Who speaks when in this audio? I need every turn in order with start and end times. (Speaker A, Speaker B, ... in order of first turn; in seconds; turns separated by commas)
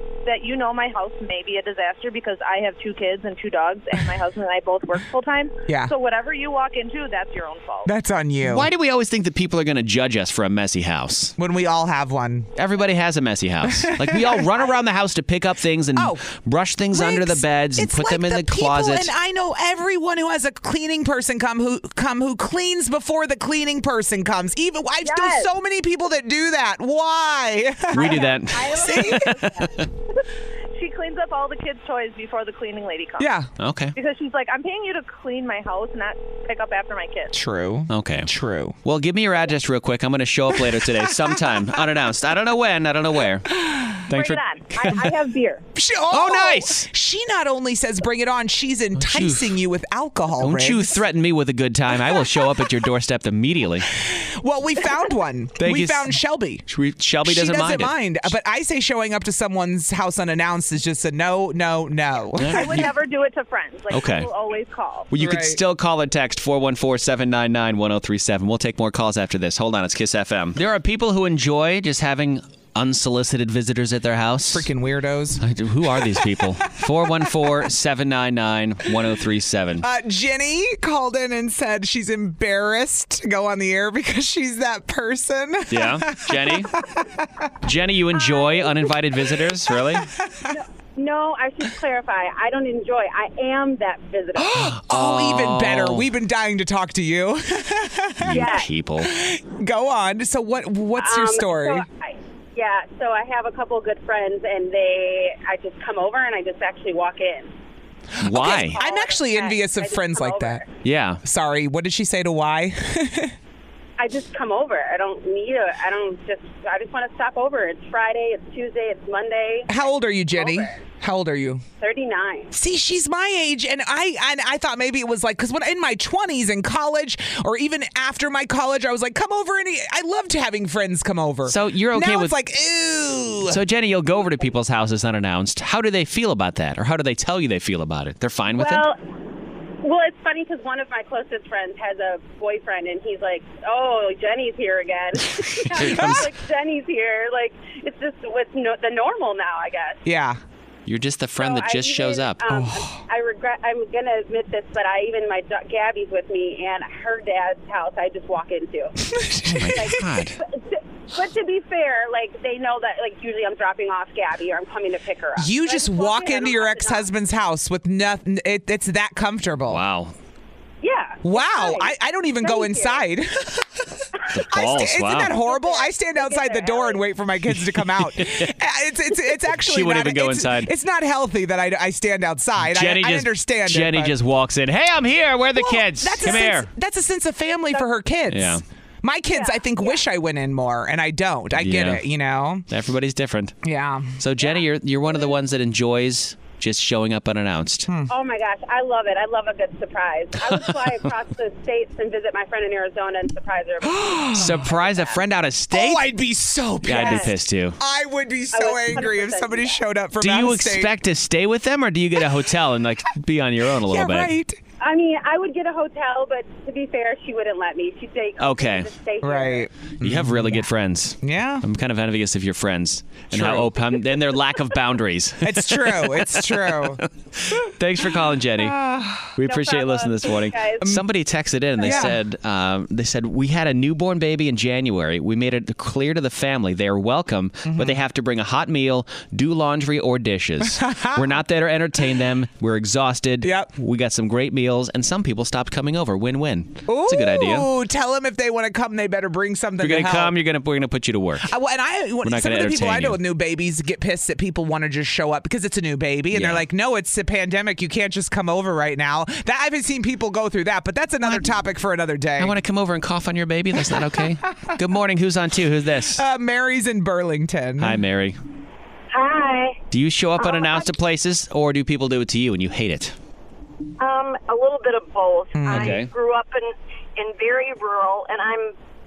Speaker A: 0.2-7.9, Speaker B: 5.7-5.9, Speaker B: 7.8-8.7, Speaker C: 8.4-11.3, Speaker B: 11.4-12.5, Speaker C: 12.6-19.1, Speaker B: 13.8-14.7, Speaker B: 15.9-16.2, Speaker B: 16.9-29.3, Speaker A: 25.0-25.5, Speaker C: 27.9-29.9, Speaker A: 27.9-30.2, Speaker A: 30.7-33.3, Speaker B: 33.2-33.5, Speaker C: 33.6-34.0, Speaker A: 34.0-37.3, Speaker B: 37.3-38.8, Speaker C: 37.9-38.3, Speaker C: 38.8-43.5, Speaker B: 43.6-44.0, Speaker C: 44.1-45.1, Speaker A: 44.1-45.6, Speaker B: 45.8-51.0, Speaker C: 46.1-46.9, Speaker C: 49.0-49.6, Speaker C: 50.4-53.9, Speaker B: 52.1-52.4, Speaker B: 54.0-56.6, Speaker C: 55.6-58.3, Speaker B: 57.2-62.9, Speaker C: 62.4-62.9, Speaker A: 62.5-65.1, Speaker C: 63.9-64.3, Speaker C: 65.1-74.7, Speaker B: 65.2-65.6, Speaker B: 74.5-75.4, Speaker C: 75.4-79.8, Speaker B: 79.8-87.5, Speaker C: 85.7-86.8, Speaker C: 87.6-90.1, Speaker B: 90.3-90.5, Speaker D: 90.5-94.6, Speaker B: 94.4-101.9, Speaker C: 94.6-96.1, Speaker C: 98.2-99.1, Speaker D: 98.3-98.7, Speaker D: 101.0-107.5, Speaker B: 108.2-110.6, Speaker C: 108.2-108.8, Speaker D: 108.4-110.7, Speaker C: 110.8-111.2, Speaker B: 111.2-113.3, Speaker D: 114.0-119.8, Speaker B: 119.7-121.6, Speaker D: 120.3-120.6, Speaker D: 121.8-122.5, Speaker B: 122.5-133.6, Speaker C: 131.5-132.3, Speaker C: 133.5-138.9, Speaker D: 138.6-138.9, Speaker D: 139.8-150.0, Speaker C: 145.3-146.3, Speaker B: 145.8-146.3, Speaker B: 150.0-150.4, Speaker C: 150.9-152.5, Speaker D: 151.4-159.2, Speaker B: 152.5-153.0, Speaker B: 159.2-160.0, Speaker C: 159.4-160.4, Speaker D: 159.7-167.1, Speaker B: 165.4-169.8, Speaker C: 169.7-170.1, Speaker D: 170.8-171.9, Speaker B: 171.2-173.9, Speaker D: 172.4-173.0, Speaker C: 174.3-175.3, Speaker B: 174.5-184.1, Speaker D: 175.3-177.0, Speaker C: 177.5-178.5, Speaker C: 179.4-180.7, Speaker C: 182.6-186.7, Speaker B: 185.6-192.6, Speaker C: 188.3-188.6, Speaker D: 189.3-189.9, Speaker C: 191.6-192.0, Speaker C: 192.7-193.6, Speaker B: 193.6-194.1, Speaker C: 194.2-197.9, Speaker B: 197.9-198.1, Speaker D: 198.1-205.2, Speaker B: 203.8-204.7, Speaker C: 204.3-206.1, Speaker B: 205.7-210.9, Speaker C: 206.8-207.8, Speaker D: 208.5-209.8, Speaker C: 210.2-214.3, Speaker B: 213.8-214.6, Speaker D: 214.8-219.7, Speaker C: 218.4-218.9, Speaker B: 219.2-220.7, Speaker C: 220.0-228.8, Speaker B: 221.2-221.6, Speaker B: 223.3-223.7, Speaker B: 225.4-227.0, Speaker B: 228.5-229.3, Speaker C: 229.3-247.7, Speaker D: 229.4-230.8, Speaker B: 231.8-232.1, Speaker B: 237.7-238.0, Speaker B: 240.7-241.2, Speaker B: 243.4-243.7, Speaker B: 246.9-250.3, Speaker C: 249.8-251.5, Speaker B: 251.4-262.5, Speaker C: 252.2-253.2, Speaker C: 256.3-256.6, Speaker C: 261.2-261.5, Speaker C: 262.4-266.2, Speaker B: 263.9-264.7, Speaker B: 266.1-268.0, Speaker C: 267.8-268.4, Speaker E: 269.1-269.8, Speaker C: 269.9-273.1, Speaker E: 270.4-270.9, Speaker E: 274.0-278.7, Speaker B: 275.6-276.0, Speaker C: 275.7-276.1